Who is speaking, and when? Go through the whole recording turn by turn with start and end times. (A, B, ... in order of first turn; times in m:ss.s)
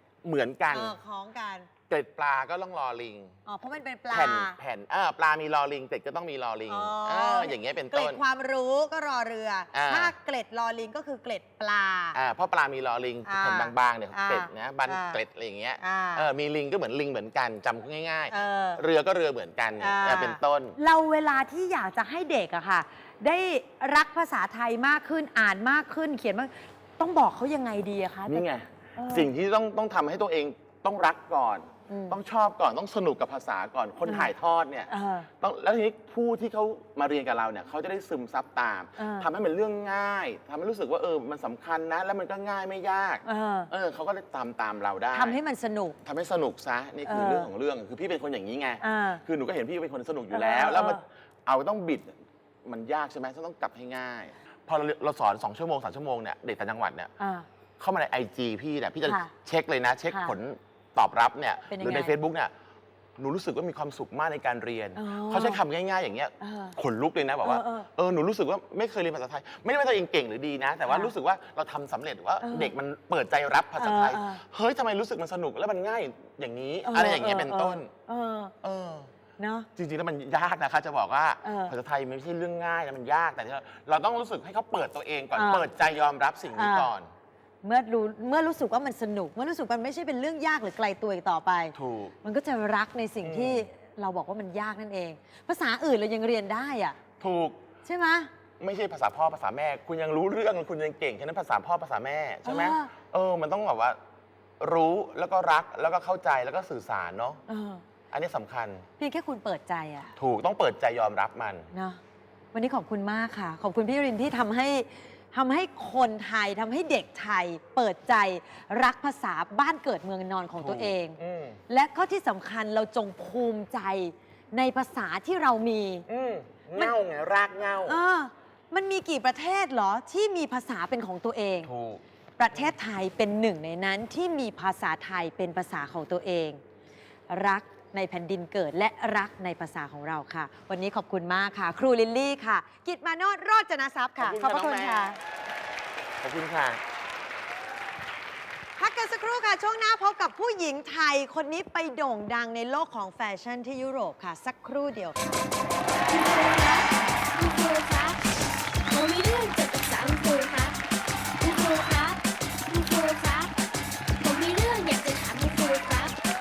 0:00.2-0:01.0 A
0:00.7-0:01.7 B
0:01.9-0:03.4 A
0:03.5-0:04.6 B
0:04.1-0:08.2 A
0:06.7-0:12.2 B
0:09.7-0:10.1 A
0:12.1-0:20.8 A
0:13.3-0:15.2 B
0:15.8-0:16.3 B
0:18.3-0:18.8 B
0:19.8-0:28.4 B
0:28.3-0:45.4 A
0:29.0-0:29.3 B
0:31.9-0:32.2 B
0:34.0-0:34.3 B
0:34.9-0:35.3 B
0:39.0-0:39.3 B
0:43.3-0:43.7 B
0:45.1-0:46.0 B
0:46.0-0:57.1 A
0:47.1-0:47.5 B
0:48.8-0:49.2 B
0:50.3-0:51.0 B
0:57.2-0:57.5 B
0:57.8-1:02.5 A
0:59.0-0:59.3 B
1:00.1-1:00.3 B
1:01.7-1:02.2 B
1:03.2-1:17.9 A
1:05.0-1:05.6 B
1:06.4-1:06.8 B
1:07.4-1:07.9 B
1:10.8-1:11.1 B
1:12.4-1:12.7 B
1:13.8-1:14.4 B
1:16.8-1:18.5 B
1:18.6-1:19.1 A
1:19.4-1:19.7 B
1:19.8-1:27.1 A
1:21.4-1:21.7 B
1:25.3-1:25.7 B
1:26.6-1:26.9 B
1:27.6-1:37.0 B
1:31.7-1:32.1 A
1:33.2-1:33.7 A
1:37.2-1:37.6 A
1:37.8-1:38.3 B
1:38.6-1:44.0 A
1:42.4-1:42.9 B
1:44.6-1:47.4 A
1:47.5-1:47.8 B
1:48.1-1:48.9 A
1:49.0-1:50.1 B
1:50.2-1:51.7 A
1:51.7-1:52.0 B
1:52.5-2:06.1 B
2:00.6-2:01.6 A
2:06.1-2:08.0 A
2:07.8-2:11.7 B
2:11.6-2:12.0 A
2:12.4-2:16.6 B
2:17.3-2:25.2 B
2:24.2-2:25.2 A
2:26.2-2:26.8 A
2:28.8-2:35.4 B
2:36.1-2:38.2 C
2:38.9-2:40.8 C
2:41.4-2:43.5 C
2:44.2-2:46.1 C